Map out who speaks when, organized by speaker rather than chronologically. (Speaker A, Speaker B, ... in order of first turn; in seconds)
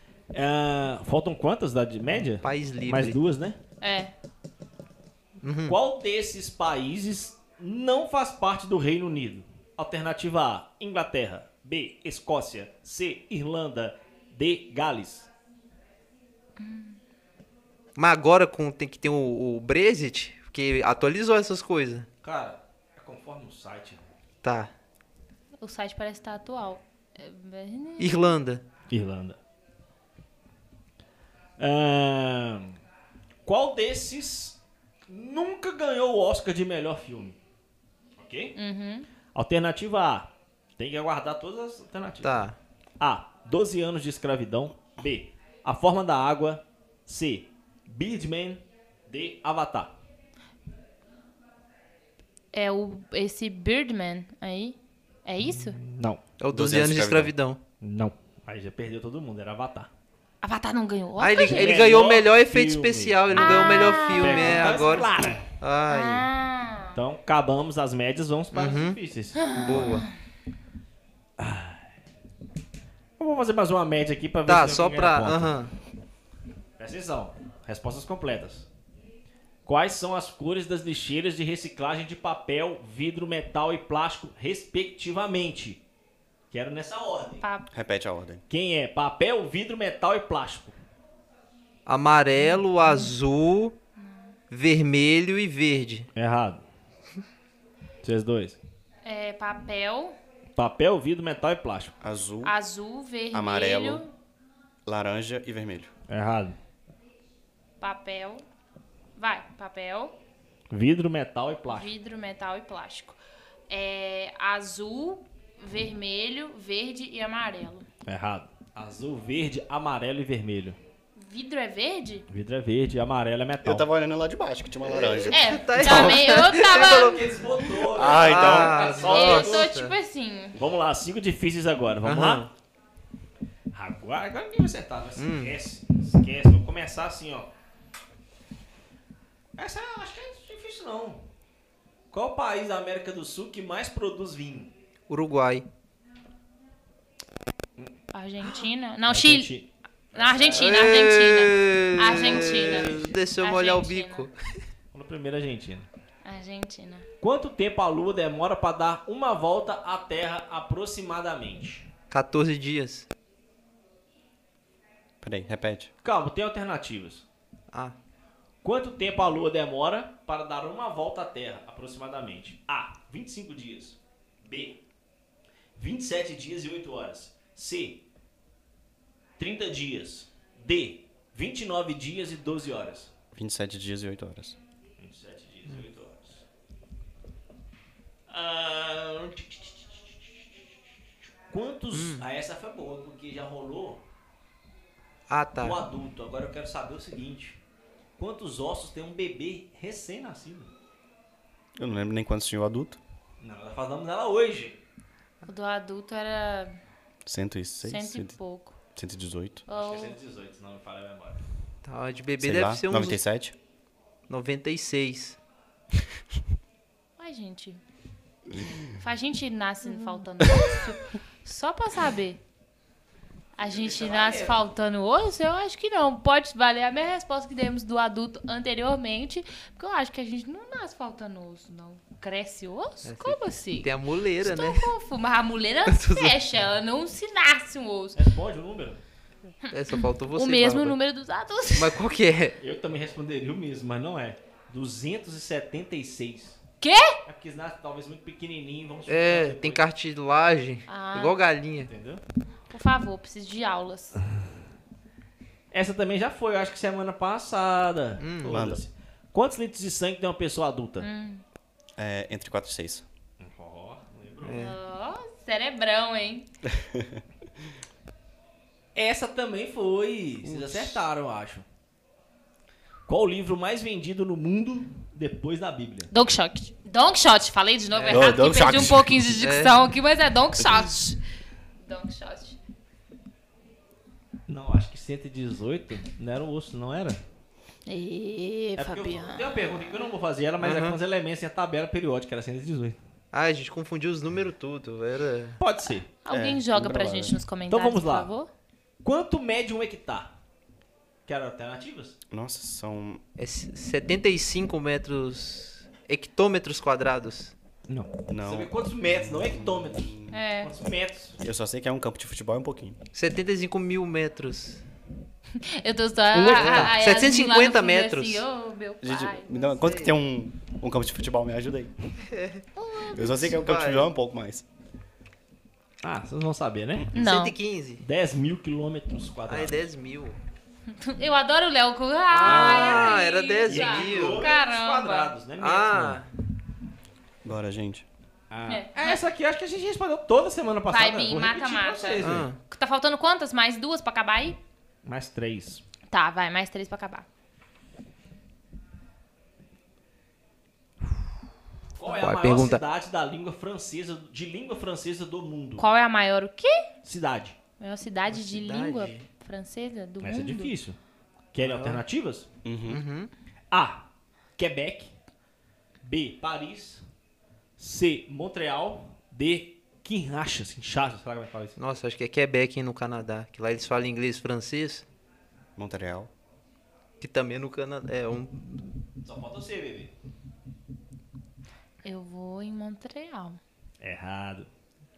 Speaker A: 0.3-3.6, 5.7-15.3, 22.2-24.1, 28.9-29.4, 31.6-32.8, 33.5-37.4, 38.2-38.6, 39.3-42.4, 43.0-49.9, 55.7-56.2, 57.8-59.9, 61.4-65.5, 67.0-69.9, 71.4-71.9, 73.2-75.6, 76.8-78.7, 79.7-85.8, 86.5-87.4, 88.5-90.8, 96.2-96.6, 98.0-98.6, 100.6-102.0, 106.1-106.6, 110.7-111.9, 118.1-120.8, 122.3-123.9, 126.6-129.7, 130.6-132.5, 133.7-137.5, 139.6-141.2, 142.1-144.7, 149.1-150.9, 152.1-153.2, 154.9-155.9, 157.2-161.9, 166.0-167.2, 168.6-174.8, 175.8-178.0, 179.4-183.1, 185.0-186.4, 188.3-190.2, 191.5-194.0, 195.6-197.6, 198.2-200.7, 203.4-204.8, 209.7-211.4, 223.6-224.6, 238.2-239.0, 242.6-246.6, 247.2-249.8, 251.9-252.2, 255.7-261.1, 263.4-264.6, 268.9-271.6, 273.1-276.1, 284.5-287.2, 288.8-293.0, 295.6-296.1, 297.7-298.3, 299.0-300.3, 301.3-302.1, 307.9-311.4, 326.0-327.1, 328.0-329.8, 332.4-336.2, 338.5-342.5, 345.0-345.8, 352.0-355.9, 357.0-357.6, 360.2-361.0, 361.5-362.5, 363.7-364.0, 364.6-365.1, 366.0-367.0, 367.8-371.8, 379.2-380.1, 384.0-384.7
Speaker B: 2.4-3.2, 5.4-5.8, 18.0-22.1, 24.4-24.7, 28.0-28.6, 42.2-42.6, 56.4-57.6, 61.2-66.3, 68.5-69.0, 69.5-70.0, 74.5-75.7, 91.9-93.8, 94.5-96.1, 124.8-127.2, 128.0-129.9, 132.0-132.5, 135.2-135.6, 145.1-145.7, 150.6-154.3, 162.1-163.1, 191.9-192.2, 195.3-195.8, 211.8-213.2, 214.3-215.4, 233.1-234.9, 235.9-236.4, 239.7-240.9, 241.7-242.6, 249.1-251.9, 258.2-258.6, 264.4-264.8, 270.4-271.0, 277.9-279.8, 290.6-291.0, 293.3-295.6, 303.4-307.5, 313.1-314.8, 316.3-318.4, 319.8-320.2, 322.2-322.6, 323.2-324.1, 327.1-328.0, 329.5-330.4, 332.3-334.5, 335.6-336.3, 342.2-342.6, 352.1-352.8, 358.3-359.3, 361.6-362.0, 362.9-363.3, 371.8-375.1, 377.2-379.0
Speaker C: 3.8-4.1, 16.6-17.0, 25.6-28.2, 38.6-39.1, 52.5-55.8, 60.4-61.8, 63.4-65.0, 65.9-67.0, 69.4-70.1, 87.4-87.7, 92.4-93.1, 94.0-94.3, 99.0-100.2, 102.4-104.1, 107.8-108.4, 109.2-110.2, 111.7-113.2, 113.7-117.9, 121.2-122.2, 125.3-127.2, 129.1-130.6, 148.1-149.5, 150.1-154.3, 156.2-157.1, 205.5-206.8, 207.8-208.8, 209.7-210.2, 217.2-217.8, 219.0-222.4, 223.6-238.2, 239.7-242.0, 246.8-247.2, 250.9-251.4, 252.7-254.2, 261.0-261.4, 264.5-266.5, 276.1-281.2, 281.8-282.6, 287.9-289.8, 296.2-298.5, 310.3-310.7, 315.6-319.8, 322.8-323.5, 327.1-327.6, 330.9-335.3, 338.7-339.2, 340.9-344.6, 346.1-347.3, 355.8-356.9, 357.8-360.7, 382.0-383.6
Speaker D: 56.5-57.3, 87.7-88.4, 102.0-102.5, 103.3-104.0, 104.9-105.9, 123.6-126.1, 127.9-129.0, 165.2-165.9, 183.3-184.6, 201.8-203.0, 207.3-208.3, 208.9-209.6, 212.4-213.6, 258.5-258.8, 262.0-263.1, 266.7-267.2, 278.1-279.2, 296.3-297.4, 302.3-303.2, 308.3-310.3, 311.4-313.0, 319.0-321.9, 323.1-324.6, 337.4-338.1, 362.6-363.0, 375.8-376.3